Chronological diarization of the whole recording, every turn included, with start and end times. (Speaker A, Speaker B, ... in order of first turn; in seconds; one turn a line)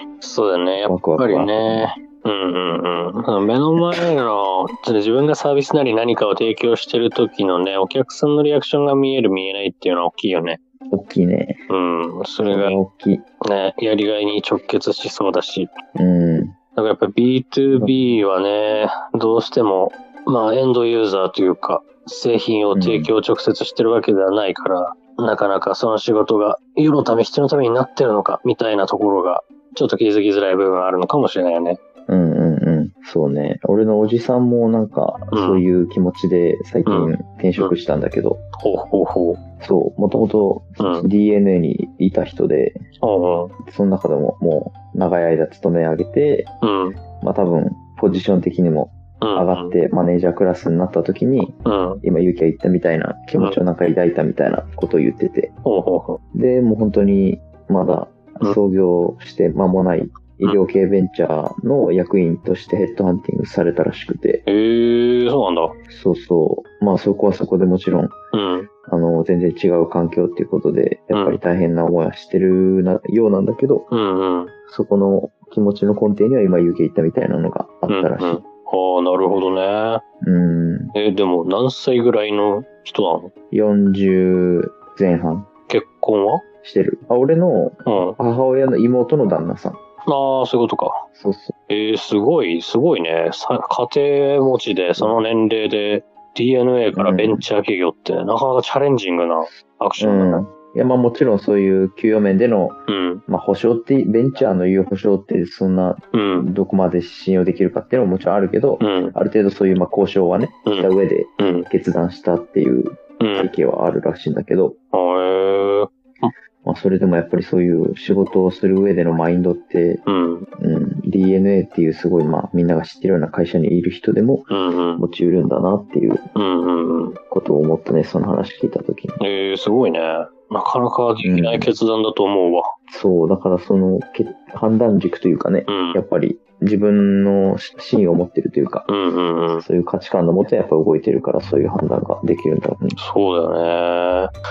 Speaker A: 0.2-10.6
Speaker B: 0.8-1.9
Speaker B: 10.9-11.6
Speaker A: 11.7-12.8
Speaker B: 12.4-13.2
Speaker A: 13.4-15.7
Speaker B: 15.9-16.6
Speaker A: 16.7-31.8
Speaker B: 17.7-18.0
Speaker B: 22.7-23.1
Speaker B: 32.1-38.4
Speaker A: 35.3-35.6
Speaker A: 36.9-37.7
Speaker A: 38.6-39.4
Speaker B: 39.6-42.8
Speaker A: 40.8-41.1
Speaker A: 43.0-43.5
Speaker B: 43.6-46.5
Speaker A: 46.6-47.0
Speaker B: 47.2-55.5
Speaker A: 49.2-49.7
Speaker A: 51.6-52.0
Speaker A: 55.6-56.2
Speaker B: 56.3-64.4
Speaker A: 64.5-65.7
Speaker B: 65.9-68.1
Speaker A: 68.3-68.7
Speaker B: 68.9-73.9
Speaker A: 71.1-71.4
Speaker A: 73.9-74.5
Speaker B: 74.7-78.4
Speaker A: 77.9-80.0
Speaker B: 80.2-80.9
Speaker A: 80.9-83.3
Speaker B: 83.5-85.5
Speaker A: 85.7-86.4
Speaker B: 86.6-89.8
Speaker A: 87.8-88.2
Speaker A: 90.0-91.0
Speaker B: 91.2-91.5
Speaker A: 91.7-100.4
Speaker B: 95.0-95.2
Speaker B: 97.0-97.4
Speaker B: 100.0-102.8
Speaker A: 102.9-103.2
Speaker B: 103.3-114.8
Speaker A: 106.1-106.5
Speaker A: 108.8-109.1
Speaker A: 110.7-111.7
Speaker A: 113.2-113.5
Speaker A: 114.9-116.3
Speaker B: 116.6-120.0
Speaker A: 120.0-120.5
Speaker B: 120.6-126.2
Speaker A: 124.5-125.0
Speaker A: 126.3-127.2
Speaker B: 127.3-129.2
Speaker A: 129.2-132.7
Speaker B: 131.2-131.7
Speaker B: 132.9-138.9
Speaker A: 135.7-136.0
Speaker A: 138.9-139.6
Speaker B: 139.6-143.0
Speaker A: 142.9-144.3